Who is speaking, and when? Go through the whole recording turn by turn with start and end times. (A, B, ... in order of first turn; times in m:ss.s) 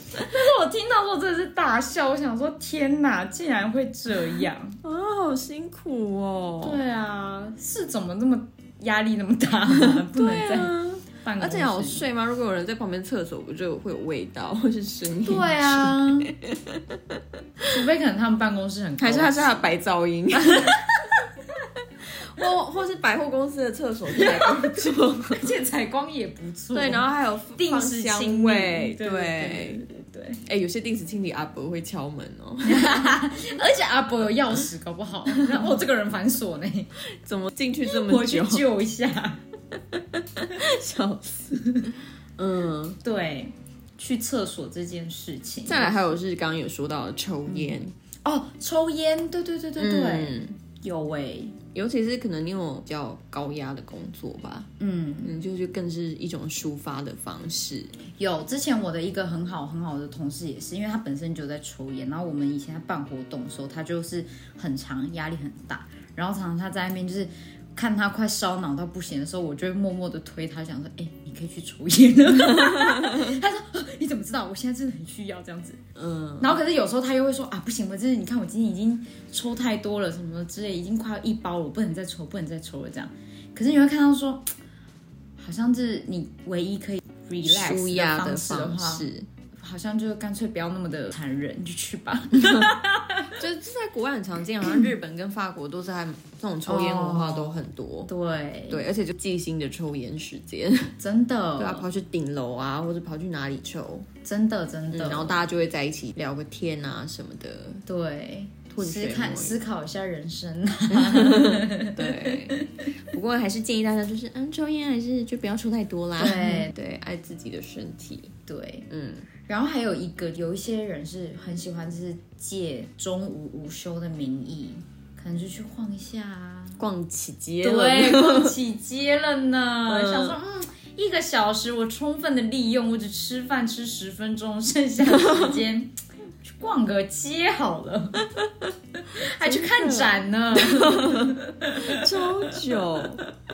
0:00.1-0:04.8 A
0:04.8-0:06.8 B
0:06.6-0:12.0 A
0:09.7-0:17.6 B
0:15.2-0:16.3 A
0:17.7-0:19.7 A
0:19.0-0:20.8 B
0:20.3-0:21.2 A
0:22.0-0:25.4 B
0:24.1-0:30.4 A
0:26.7-0:29.8 B
0:30.4-0:33.1 B
0:32.6-0:36.9 A
0:37.2-0:38.6 B
0:37.8-0:39.4 A
0:39.7-0:43.0 B
0:43.0-0:46.1 A
0:45.6-0:47.9 B
0:47.5-0:51.6 A
0:49.8-0:50.6 B
0:51.7-0:54.7 B
0:54.8-0:55.3 A
0:55.2-0:57.9 B
0:58.2-1:15.8 A
1:12.5-1:13.3 B
1:16.0-1:16.6 B
1:16.4-1:24.5 A
1:25.4-1:33.3 A
1:27.4-1:29.3 B
1:33.3-1:38.1 B
1:36.6-1:38.8 A
1:38.7-1:40.9 B
1:41.0-1:41.8 A
1:41.6-1:44.1 B
1:44.2-1:45.4 A
1:44.9-1:47.8 B
1:47.8-1:52.7 A
1:48.7-1:49.6 B
1:50.9-1:58.3 B
1:56.2-1:56.7 A
1:58.5-1:58.9 A
1:58.9-1:59.3 B
1:59.4-2:06.8 A
2:06.8-2:08.5 B
2:07.6-2:18.2 A
2:09.8-2:10.4 B
2:15.1-2:15.6 B
2:18.4-2:18.7 B
2:19.1-2:22.7 A
2:19.4-2:23.2 B